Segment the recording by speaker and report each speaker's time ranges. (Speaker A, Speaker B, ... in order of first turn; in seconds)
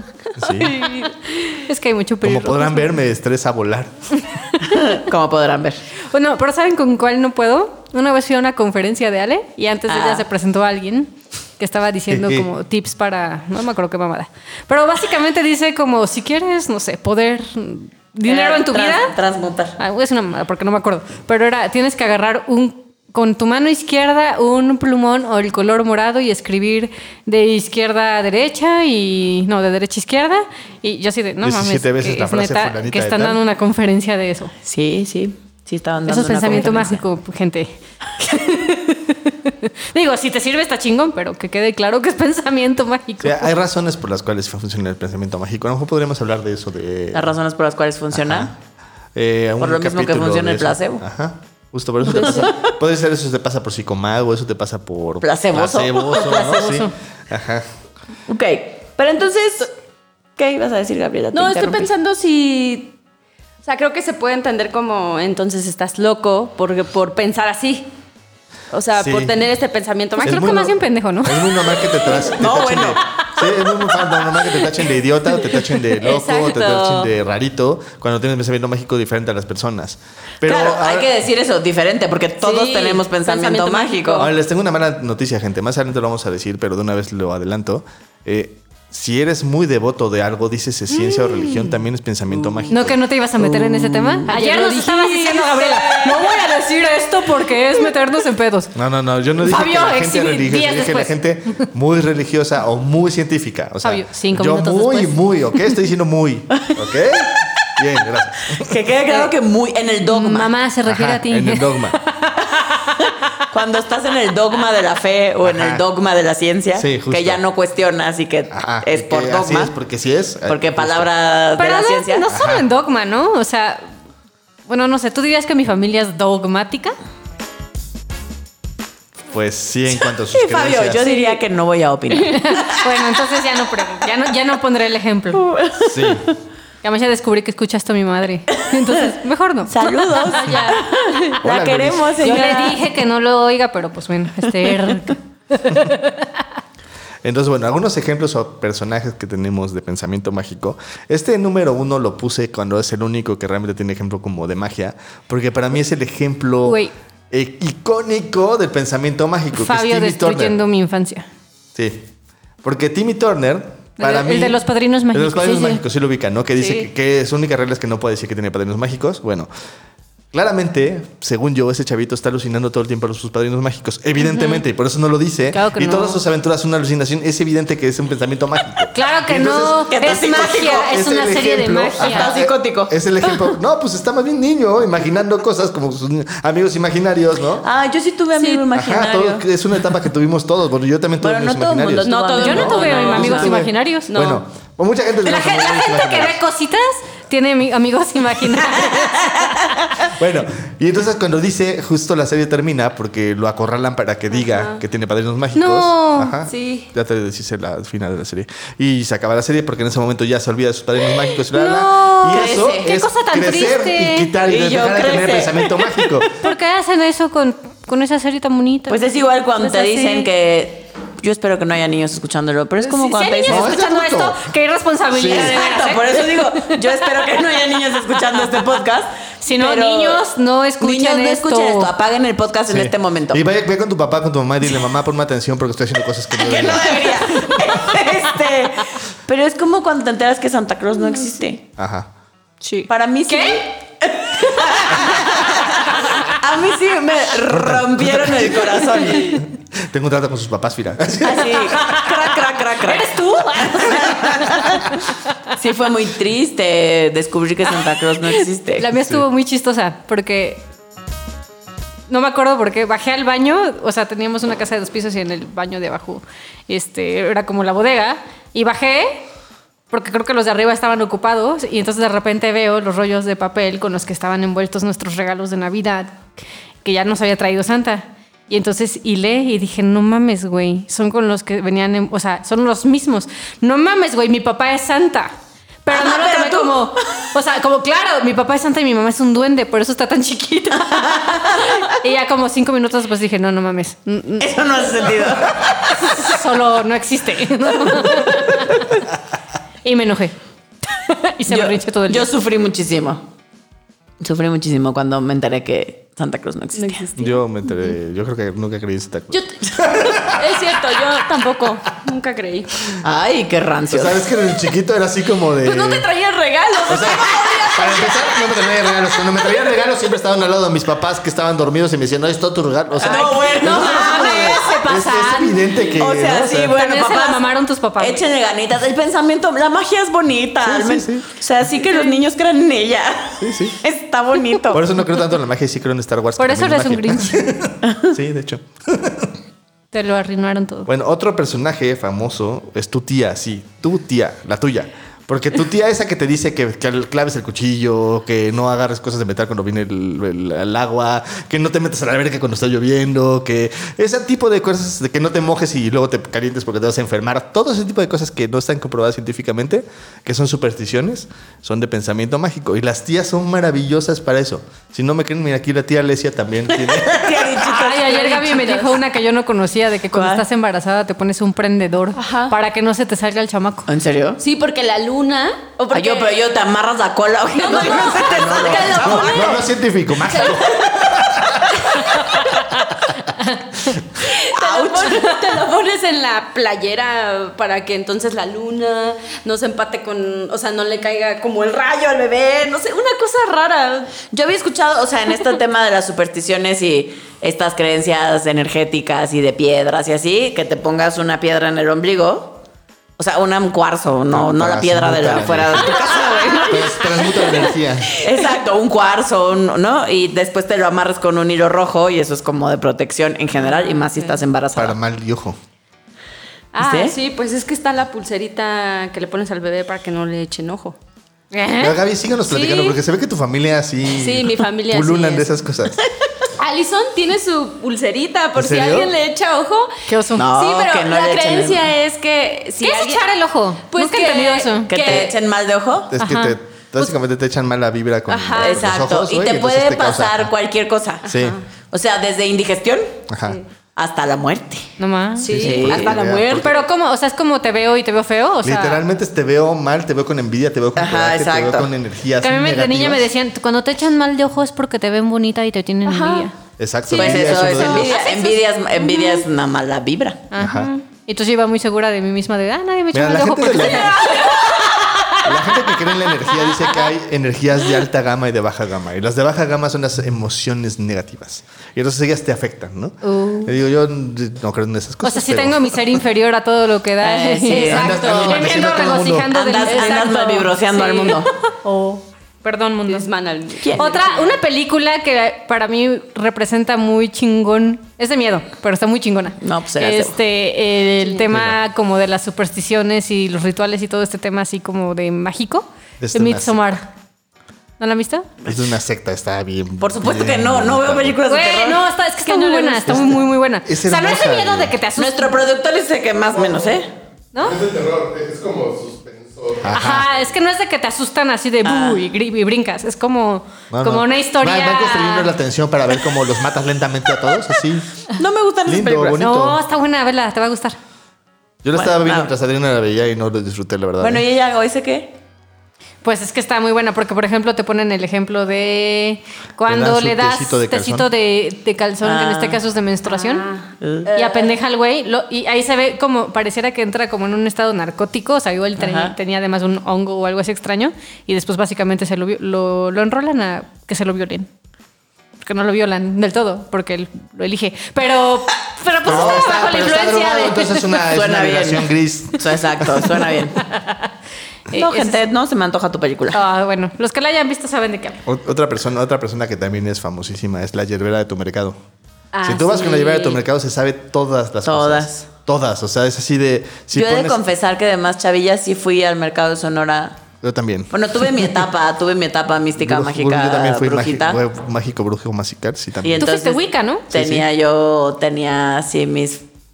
Speaker A: 0.4-0.8, 2.2-4.0, 12.1-12.5, 31.4-33.4, 43.2-47.4, 48.1-48.5, 49.1-57.7, 69.0-69.4, 70.2-81.1, 84.2-94.3, 98.8-108.8, 110.8-112.0, 115.4-115.8, 116.8-117.4, 118.5-121.1, 122.3-122.7, 129.3-131.1, 135.8-136.3, 141.4-142.2, 147.2-160.6, 161.8-162.1, 162.6-169.5, 170.3-187.7, 188.7-196.4, 200.1-216.4, 223.5-224.4, 225.1-225.6, 232.7-237.8, 241.8-242.1, 247.5-251.9, 259.0-259.2, 307.2-310.6, 313.9-316.1, 316.9-326.8, 330.6-331.3, 333.4-333.8, 334.7-339.4, 340.9-367.6, 378.2-382.2, 404.3-408.2, 414.8-415.6, 421.8-426.0, 428.6-429.1, 436.1-440.5, 441.3-441.6, 443.3-443.6, 445.4-446.8, 448.6-453.3, 456.8-458.2, 460.6-460.9, 463.1-464.5, 465.4-476.2, 477.7-479.5, 491.5-491.8, 496.2-497.0, 498.6-501.4, 503.0-504.9, 509.8-510.3, 513.9-518.1, 518.9-519.8, 521.8-524.5, 529.9-531.3, 549.2-553.4, 558.5-562.0, 562.6-567.6, 570.6-571.7, 573.0-576.5, 577.3-577.6
Speaker B: 0.4-2.9, 4.3-4.8, 6.1-19.1, 19.8-34.5, 36.1-43.5, 56.4-56.9, 70.2-72.0, 92.7-98.7, 99.4-101.1, 103.8-105.2, 110.1-113.1, 121.6-123.8, 124.7-127.0, 132.2-135.4, 136.8-140.6, 142.2-146.4, 156.7-156.9, 159.6-161.3, 164.0-165.8, 174.3-174.5, 175.5-176.2, 178.9-182.3, 192.4-194.1, 195.2-199.8, 205.6-206.4, 211.5-214.3, 216.4-219.1, 219.6-220.1, 222.8-226.9, 229.4-231.9, 242.6-243.7, 244.4-245.2, 245.9-246.2, 251.6-252.1, 252.8-254.9, 258.8-260.7, 262.1-269.3, 269.9-276.3, 276.8-285.3, 285.8-295.1, 295.9-299.0, 299.8-300.4, 300.9-302.3, 323.1-325.7, 326.7-328.2, 336.4-337.5, 339.9-340.9, 367.6-373.9, 421.5-422.0, 430.1-430.5, 432.8-435.3, 436.2-436.6, 445.0-449.0, 452.4-456.5, 460.5-465.6, 473.2-473.7, 475.2-483.3, 483.9-497.1, 498.0-498.5, 501.5-505.6, 507.5-507.8, 509.9-515.5, 519.4-521.0, 526.2-533.7, 534.3-544.7, 545.6-551.1, 553.8-554.2, 554.9-555.4, 556.5-558.4, 562.6-563.4, 576.4-577.3
Speaker C: 4.7-5.8, 9.9-10.3, 18.2-19.8, 34.6-37.0, 47.1-48.5, 49.6-51.0, 52.2-52.6, 55.2-56.8, 58.3-59.7, 60.4-61.9, 72.2-73.0, 80.4-84.3, 108.5-110.5, 113.5-119.7, 120.5-122.3, 130.3-133.3, 135.3-136.2, 139.7-142.8, 179.9-181.0, 182.0-182.9, 187.6-189.5, 191.2-193.6, 212.3-212.9, 214.4-216.1, 218.9-223.8, 225.2-230.2, 230.8-233.4, 236.3-241.6, 242.9-249.4, 251.2-254.8, 255.6-258.9, 285.9-287.3, 290.9-291.8, 294.4-296.4, 297.9-298.2, 301.5-303.2, 304.2-307.1, 313.0-314.2, 323.0-324.8, 325.9-334.9, 366.8-368.8, 370.1-370.4, 373.9-374.4, 375.9-379.5, 384.5-385.5, 394.3-402.6, 403.2-415.0, 416.8-417.2, 430.4-431.9, 434.9-436.1, 438.6-441.3, 441.9-443.2, 444.0-444.9, 445.5-446.2, 451.0-451.9, 457.1-460.5, 477.2-478.8, 479.5-481.5, 483.8-484.2, 489.6-490.4, 500.0-502.1, 505.2-507.1, 511.8-512.2, 518.3-519.4, 521.9-522.5, 524.2-525.4, 532.2-532.8, 534.0-534.3, 539.0-539.4, 551.3-553.8, 554.9-556.6, 564.9-565.5, 567.1-570.4, 571.1-574.6, 576.2-579.7
Speaker D: 61.3-63.0, 63.6-67.9, 68.7-70.7, 76.0-77.1, 82.4-84.3, 94.3-96.4, 140.3-141.3, 188.4-188.6, 192.0-193.5, 194.1-194.4, 204.3-204.8, 206.5-206.9, 306.8-307.4, 309.3-312.9, 315.6-319.2, 368.1-369.0, 372.2-372.6, 374.4-376.4, 377.5-379.7, 380.3-380.7, 381.9-382.2, 384.2-394.2, 406.0-407.4, 413.6-414.4, 416.7-421.0, 422.5-423.0, 424.1-425.5, 426.6-433.3, 433.9-435.3, 438.3-438.9, 441.2-441.6, 445.4-446.7, 456.1-456.5, 457.1-459.4, 460.7-461.0, 477.7-478.6, 479.9-480.7, 483.1-484.6, 502.4-503.1, 533.3-534.7
Speaker E: 506.5-507.0, 507.6-509.9